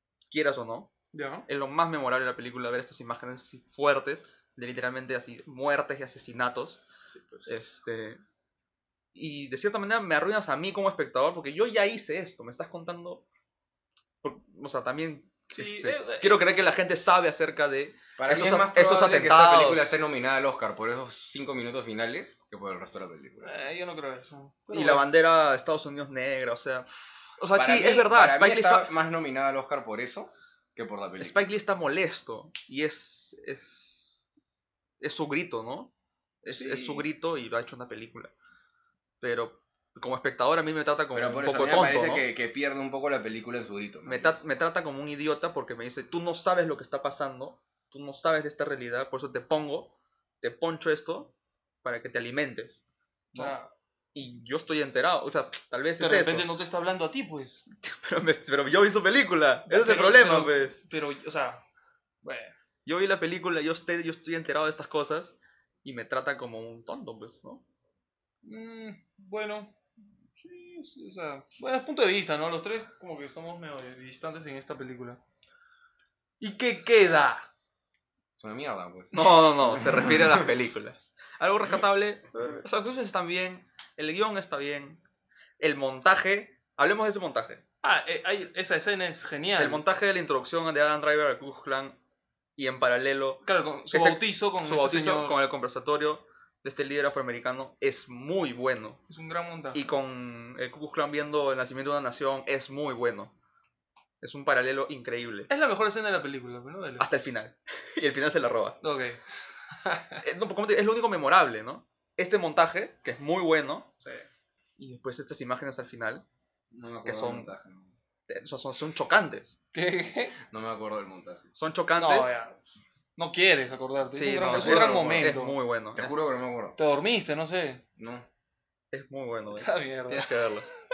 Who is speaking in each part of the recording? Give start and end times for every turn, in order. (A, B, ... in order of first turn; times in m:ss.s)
0:00.3-0:00.9 A
0:01.1-0:01.4 B
0:01.4-0:06.8 A
0:07.1-0:07.6 B
0:07.4-0:08.2 A
0:09.1-0:13.2 A
0:14.2-0:19.9 A
0:15.5-0:16.7 B
0:18.2-0:23.6 C
0:23.4-0:25.1 B
0:24.7-0:26.9 A
0:27.4-0:28.9 A
0:27.6-0:31.5 C
0:31.2-0:34.1 A
0:35.0-0:35.9 A
0:36.4-0:38.3 A
0:36.5-0:37.0 B
0:39.2-0:42.3 A
0:41.1-0:44.4 C
0:44.0-0:52.8 A
0:53.3-0:53.7 B
0:54.1-0:56.4 A
0:56.0-0:57.7 B
0:57.8-1:00.8 A
0:59.7-1:01.6 B
1:02.2-1:02.5 B
1:02.8-1:07.6 A
1:08.4-1:09.8 B
1:10.3-1:15.2 B
1:16.4-1:17.5 B
1:18.4-1:20.5 C
1:19.1-1:25.0 A
1:25.6-1:27.6 A
1:27.8-1:29.8 B
1:29.6-1:32.0 A
1:32.6-1:39.0 A
1:33.4-1:35.4 B
1:39.1-1:39.8 B
1:39.7-1:43.3 A
1:44.2-1:45.5 A
1:45.5-1:47.1 B
1:47.0-1:48.8 A
1:48.8-1:50.2 B
1:50.2-1:53.9 A
1:54.8-1:56.2 A
1:56.7-1:57.9 C
1:57.0-1:57.5 A
1:58.3-1:59.6 A
1:59.7-2:00.4 B
2:00.4-2:01.4 C
2:01.5-2:02.4 A
2:02.0-2:02.6 B
2:03.2-2:05.6 B
2:04.1-2:06.1 A
2:04.5-2:05.3 C
2:06.0-2:06.8 C
2:06.8-2:07.8 B
2:08.0-2:08.3 C
2:08.9-2:10.7 A
2:09.5-2:10.4 B